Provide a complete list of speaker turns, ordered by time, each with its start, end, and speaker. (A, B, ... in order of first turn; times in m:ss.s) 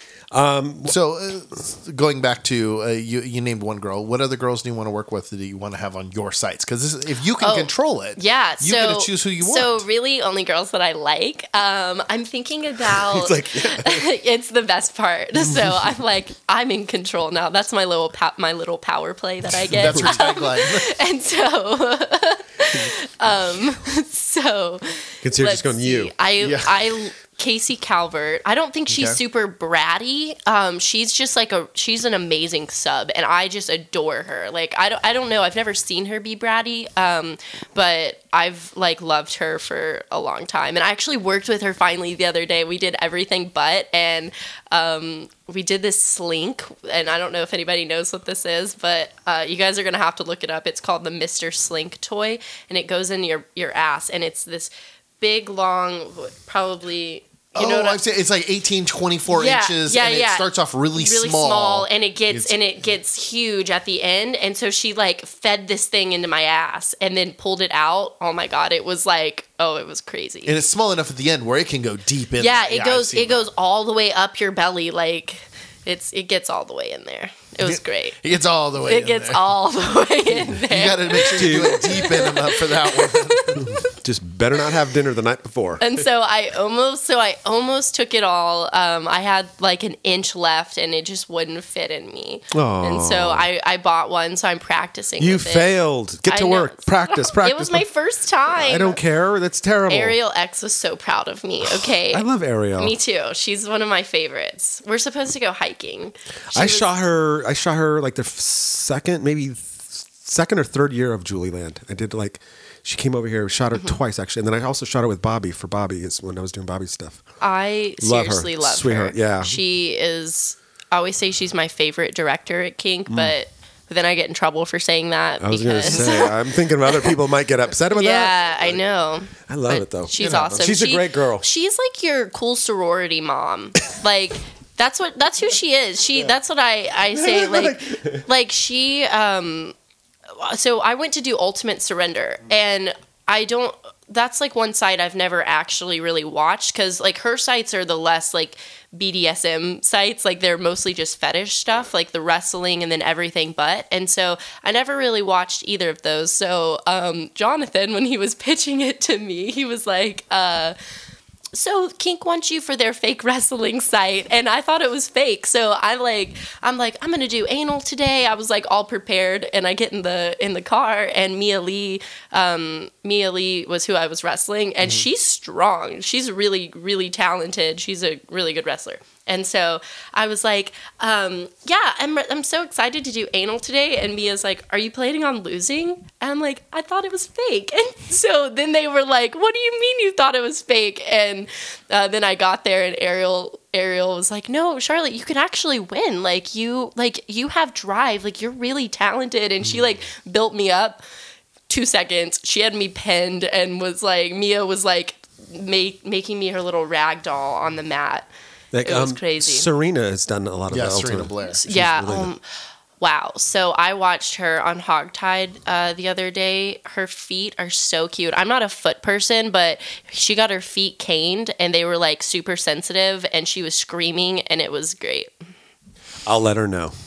0:00.3-0:01.0 A
0:00.9-0:09.8 B
0:07.4-0:58.0 C
0:12.9-0:14.1 A
0:19.7-0:20.9 B
0:19.8-0:20.1 A
0:25.2-0:26.1 A
0:26.4-0:27.0 B
0:28.9-0:29.2 B
0:57.6-1:02.6 B
0:59.3-1:10.5 C
1:10.5-1:13.4 B
1:12.4-1:18.2 C
1:17.6-1:19.5 B
1:18.9-1:23.8 C
1:20.4-1:23.7 B
1:21.4-1:22.0 A
1:23.6-1:25.8 A
1:25.8-1:35.7 C
1:32.5-1:33.5 A
1:35.2-1:37.9 A
1:36.2-1:39.0 C
1:38.5-1:40.2 A
1:39.9-1:46.9 C
1:41.6-1:43.0 A
1:46.5-1:57.2 A
1:57.4-2:07.1 C
1:58.0-1:59.6 A
2:03.1-2:03.4 A
2:05.4-2:08.8 A
2:07.9-2:19.8 C
2:09.5-2:11.5 A
2:10.2-2:10.6 B
2:17.1-2:18.3 A
2:20.3-2:40.8 C
2:41.5-3:21.0 C
3:21.7-3:28.3 C
3:28.7-3:32.3 A
3:28.8-3:29.7 C
3:30.7-3:31.6 B
3:31.5-3:32.4 C
3:33.0-3:45.3 C
3:46.3-3:47.0 A